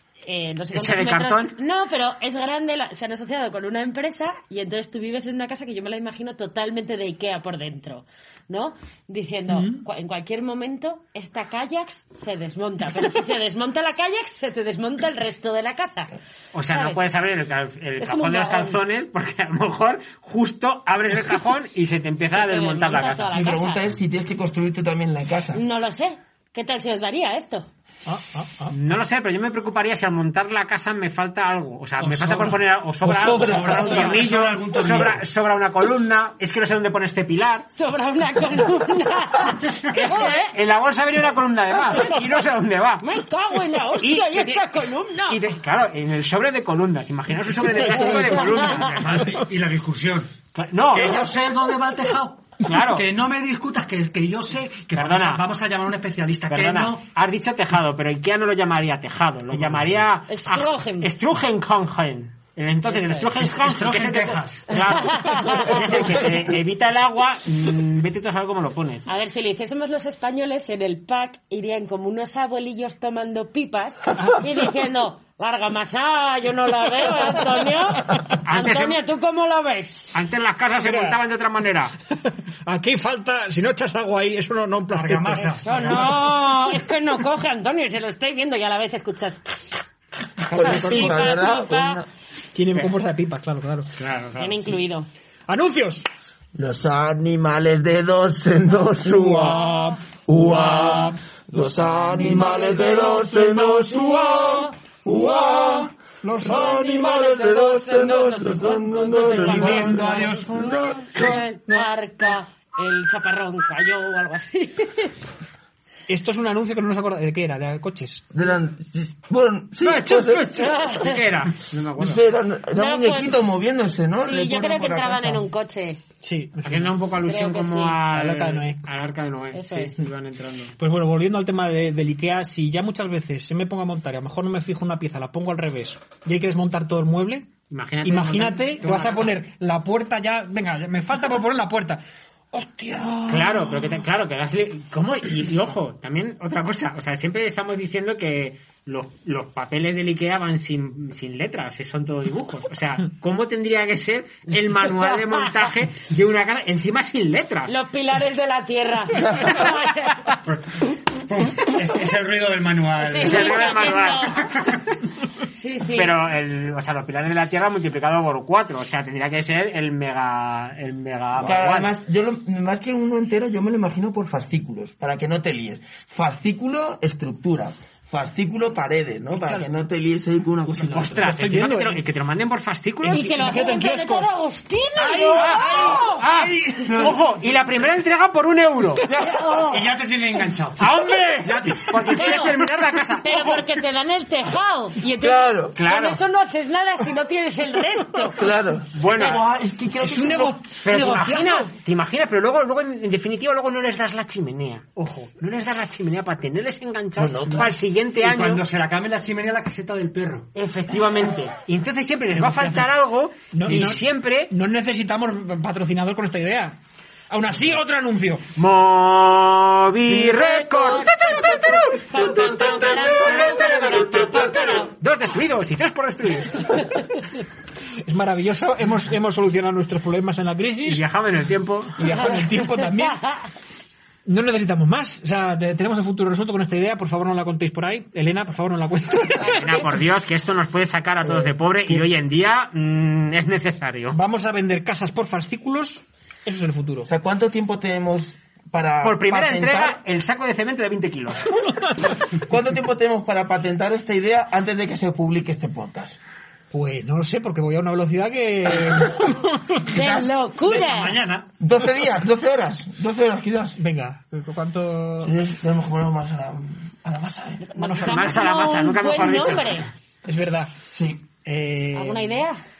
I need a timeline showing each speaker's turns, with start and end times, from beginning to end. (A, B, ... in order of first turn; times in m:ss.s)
0:00.2-0:17.0 A
0:00.7-0:01.5 B
0:09.5-0:09.8 C
0:16.5-0:23.3 B
0:18.0-0:18.8 A
0:22.3-0:23.8 A
0:23.3-0:25.6 D
0:25.5-0:27.7 A
0:28.0-0:28.7 C
0:28.7-0:37.7 B
0:32.0-0:32.6 E
0:33.0-0:33.9 D
0:33.4-0:35.2 E
0:37.7-0:40.5 A
0:39.9-0:43.1 B
0:43.0-0:45.4 A
0:44.0-0:49.3 B
0:47.8-0:48.8 A
0:48.5-0:50.3 E
0:50.5-0:51.2 B
0:50.9-0:57.0 E
0:52.6-0:53.0 B
0:54.9-0:55.4 B
0:56.5-1:09.0 B
0:59.5-1:00.1 E
1:00.3-1:01.1 A
1:02.9-1:03.3 A
1:03.3-1:05.6 E
1:04.8-1:06.2 A
1:09.1-1:20.2 A
1:14.2-1:14.4 C
1:17.4-1:18.4 C
1:18.4-1:19.0 B
1:20.1-1:21.9 B
1:20.8-1:21.2 C
1:22.2-1:25.6 C
1:24.9-1:26.4 E
1:25.6-1:29.8 A
1:30.5-1:32.0 A
1:30.5-1:32.1 D
1:32.5-1:33.9 C
1:34.0-1:34.7 B
1:34.4-1:35.1 A
1:35.5-1:36.1 C
1:36.6-1:39.8 D
1:39.1-1:41.1 C
1:40.3-1:51.4 D
1:42.2-1:44.7 A
1:46.2-1:47.3 C
1:47.1-1:55.2 A
1:49.3-1:51.8 C
1:49.8-1:50.8 E
1:56.1-1:58.2 C
1:58.3-2:00.6 D
1:59.9-2:02.1 B
2:00.5-2:01.2 A
2:02.0-2:05.4 D
2:02.7-2:03.4 A
2:04.2-2:06.0 A
2:06.2-2:07.0 C
2:06.6-2:10.7 B
2:07.2-2:08.0 A
2:08.1-2:08.8 C
2:09.5-2:10.0 A
2:10.8-2:17.5 C
2:17.7-2:19.4 B
2:18.0-2:22.0 C
2:22.5-2:23.9 C
2:23.3-2:37.7 B
2:34.8-2:35.7 A
2:37.7-2:40.4 A
2:40.5-2:44.5 E
2:43.0-2:44.4 A
2:43.2-2:44.9 B
2:45.5-2:46.1 A
2:45.9-2:51.9 B
2:51.4-3:01.4 D
2:59.3-2:59.6 C
3:00.7-3:03.3 B
3:01.2-3:02.0 C
3:03.0-3:06.1 A
3:03.1-3:04.3 C
3:05.0-3:06.2 C
3:05.3-3:09.0 B
3:05.5-3:05.9 E
3:05.7-3:06.0 D
3:06.8-3:07.1 D
3:09.1-3:09.6 D
3:09.1-3:09.8 A
3:09.6-3:13.6 E
3:10.8-3:13.4 B
3:12.1-3:12.6 A
3:13.2-3:18.4 A
3:15.2-3:15.7 D
3:15.8-3:16.2 B
3:18.4-3:20.6 D
3:19.0-3:19.4 B
3:19.0-3:19.4 A
3:20.0-3:21.7 C
3:20.8-3:28.6 B
3:27.2-3:27.7 D
3:27.6-3:30.5 E
3:30.5-3:34.5 B
3:32.3-3:32.9 C
3:33.5-3:36.8 C
3:37.3-3:38.4 C
3:38.6-3:41.1 B
3:40.3-3:44.9 A
3:41.3-3:42.0 C
3:42.3-3:46.7 B
3:42.5-3:44.5 E
3:43.7-3:44.1 C
3:48.0-3:51.0 C
3:50.9-3:51.9 B
3:52.0-3:53.2 C
3:54.2-3:59.6 C
3:59.4-4:00.0 A
3:59.6-4:04.2 B
4:01.2-4:02.0 D
4:04.1-4:07.1 C
4:07.0-4:10.0 D
4:09.0-4:11.5 B
4:11.6-4:12.0 C
4:12.4-4:16.2 D
4:16.7-4:19.9 C
4:19.9-4:21.2 A
4:19.9-4:20.3 D
4:20.6-4:21.5 E
4:21.6-4:23.8 D
4:23.8-4:25.3 C
4:25.2-4:27.8 D
4:27.7-4:28.4 C
4:27.7-4:29.8 A
4:27.9-4:29.8 B
4:30.2-4:30.7 C
4:30.9-4:31.2 D
4:31.4-4:32.4 C
4:31.9-4:32.6 A